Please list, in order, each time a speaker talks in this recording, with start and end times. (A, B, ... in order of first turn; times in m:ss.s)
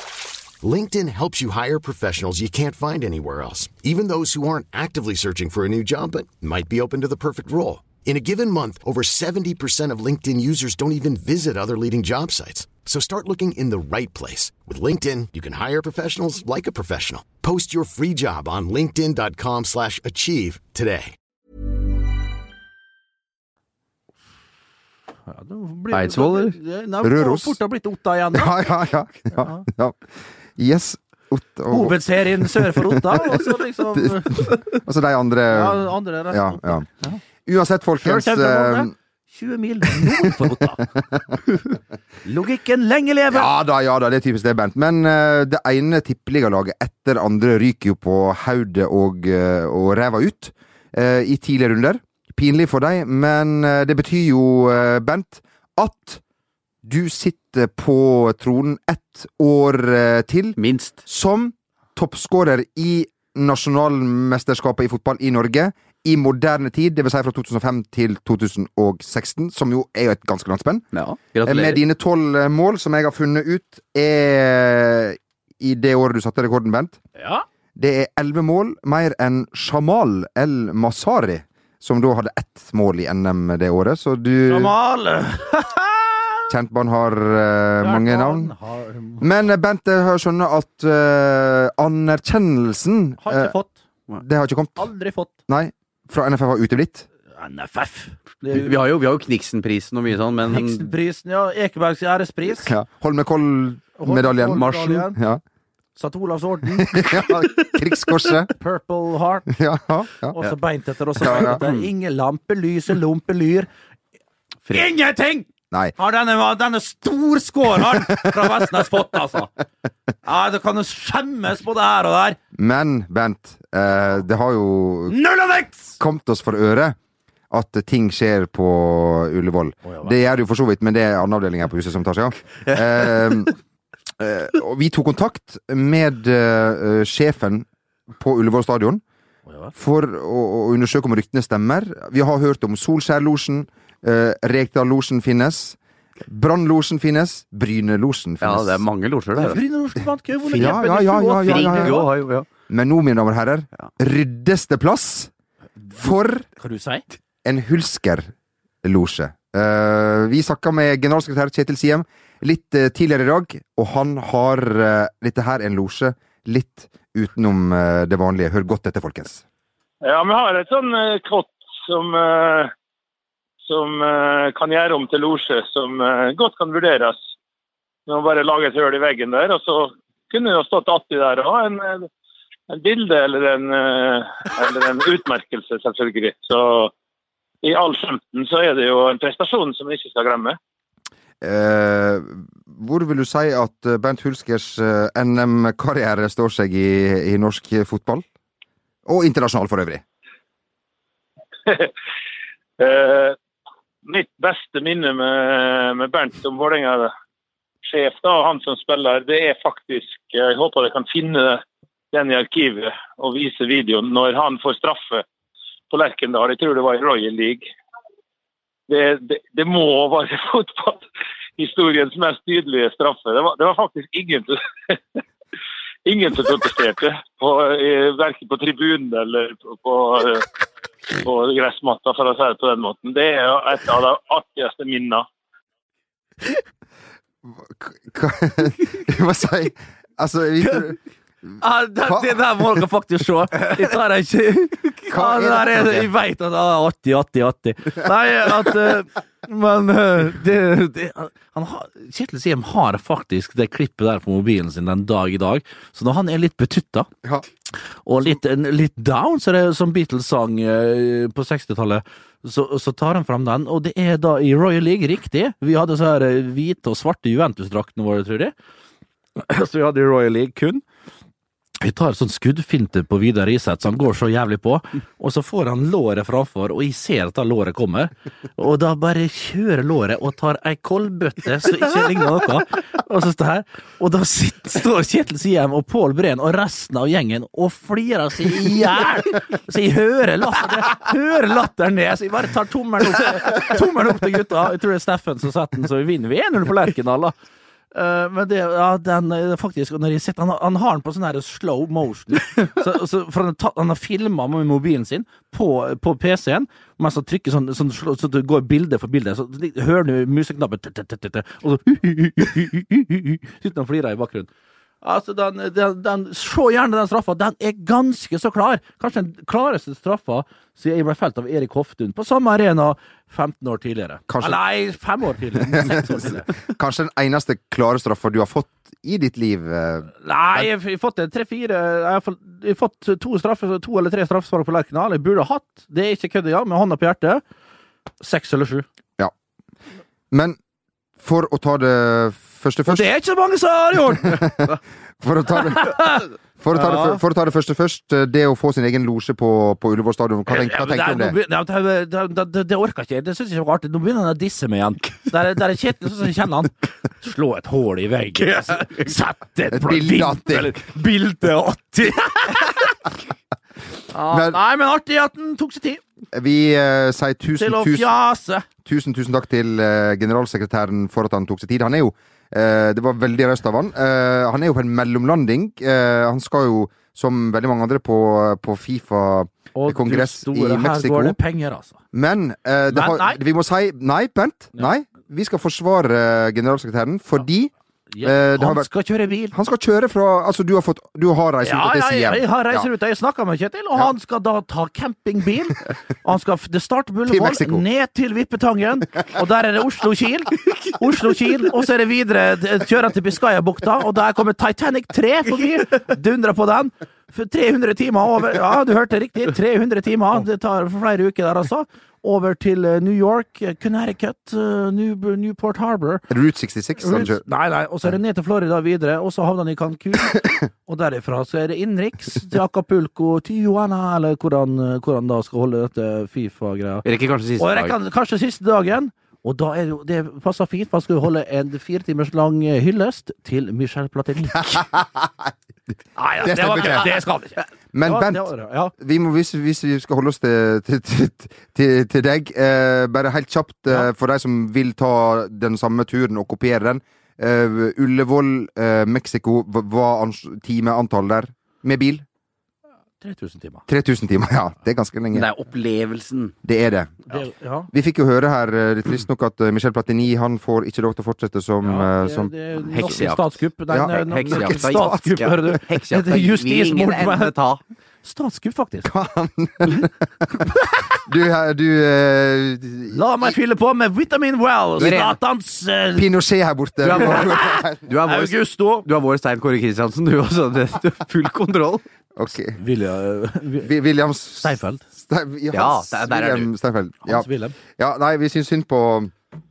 0:00.6-0:21.1 A
0:25.3-0:28.6 B
0:25.9-0:26.6 C
0:27.0-0:27.6 D
0:28.3-0:36.9 D
0:31.7-0:34.8 B
0:35.5-0:37.2 B
0:37.4-0:38.9 D
0:38.0-0:40.8 B
0:39.9-0:41.2 D
0:42.2-0:43.5 B
0:43.3-0:56.2 D
0:56.8-1:10.9 D
1:00.6-1:01.0 C
1:10.9-1:11.8 C
1:11.4-1:17.0 D
1:17.2-1:17.4 B
1:17.8-1:24.7 D
1:24.4-1:26.5 B
1:26.5-1:28.5 D
1:27.8-1:29.3 B
1:29.2-1:33.5 D
1:33.2-1:33.8 B
1:34.2-1:34.9 D
1:34.8-1:35.3 B
1:35.5-1:37.0 D
1:37.4-1:38.7 B
1:38.5-1:40.9 C
1:40.5-1:42.7 B
1:42.6-1:45.4 D
1:44.0-1:45.2 B
1:44.5-1:45.0 C
1:46.0-1:47.8 B
1:46.8-1:48.5 D
1:48.5-1:49.5 B
1:49.5-1:50.4 D
1:50.3-1:53.7 B
1:51.2-1:51.6 D
1:51.5-1:51.8 C
1:54.7-1:55.4 B
1:56.0-1:59.5 B
2:00.2-2:02.4 B
2:02.5-2:05.2 D
2:05.1-2:06.0 B
2:06.0-2:07.0 D
2:07.5-2:13.5 D
2:09.8-2:10.1 B
2:14.2-2:19.0 D
2:19.5-2:19.7 B
2:19.7-2:28.8 D
2:28.4-2:29.6 C
2:29.4-2:32.1 B
2:30.5-2:30.8 C
2:30.6-2:32.0 D
2:31.4-2:32.5 C
2:32.7-2:35.3 D
2:35.9-2:36.5 D
2:35.9-2:37.0 B
2:37.4-2:38.3 D
2:38.8-2:49.4 D
2:50.0-2:52.7 E
2:53.6-2:57.2 E
2:58.1-3:02.1 E
3:02.7-3:06.9 E
3:07.6-3:10.6 E
3:11.4-3:18.2 D
3:19.0-3:20.0 D
3:21.7-3:21.9 E
3:22.8-3:23.4 E
3:24.0-3:27.1 E
3:27.8-3:35.2 E
3:35.9-3:37.6 E
3:38.9-3:41.0 E
3:41.6-3:44.6 E
3:46.0-3:50.5 E
3:51.2-3:55.2 E
3:57.6-4:01.0 D
4:00.6-4:00.9 B
4:01.6-4:17.1 B
4:02.0-4:02.6 D
4:05.1-4:06.1 D
4:18.0-4:28.5 B
4:29.4-4:30.8 B
4:31.8-4:57.3 B
4:57.9-5:14.5 B
5:15.0-5:26.5 B
5:24.3-5:24.6 D
5:25.6-5:30.7 D
5:30.2-5:37.4 B
5:38.2-5:38.8 B
5:40.3-5:40.6 D
5:41.2-5:43.1 D
5:42.9-5:44.5 B
5:44.2-5:51.4 D
5:45.7-5:46.2 B
5:46.7-5:47.2 B
5:50.5-6:03.0 B
5:59.7-6:00.8 D
6:04.1-6:06.0 B
6:04.3-6:04.6 D
6:06.3-6:08.1 D
6:07.6-6:08.6 B
6:08.8-6:21.4 D
6:19.7-6:22.0 B
6:22.1-6:27.7 D
6:22.9-6:23.4 B
6:28.1-6:29.5 B
6:28.2-6:28.9 D
6:29.5-6:32.8 D
6:31.6-6:56.2 B
6:37.3-6:37.8 D
6:56.3-6:57.4 D
6:57.0-7:07.0 B
7:07.0-7:08.0 C
7:07.6-7:14.8 B
7:14.6-7:15.5 D
7:16.2-7:18.9 B
7:16.4-7:17.1 D
7:17.9-7:32.2 D
7:33.2-7:33.8 B
7:33.9-7:35.5 D
7:35.3-7:36.5 C
7:36.6-7:37.3 D
7:37.3-7:37.9 B
7:37.9-7:42.5 D
7:41.8-7:47.5 B
7:42.9-7:43.5 C
7:43.9-7:45.7 D
7:44.1-7:47.8 C
7:48.2-7:49.1 B
7:49.0-7:50.1 D
7:51.2-7:53.5 D
7:53.1-7:56.3 B
7:55.0-7:55.4 C
7:56.1-7:58.0 D
7:57.0-8:02.0 C
7:57.1-7:59.0 B
8:02.4-8:02.8 D
8:02.8-8:03.9 B
8:03.8-8:09.3 D
8:04.6-8:05.0 B
8:05.7-8:06.7 C
8:07.2-8:07.8 B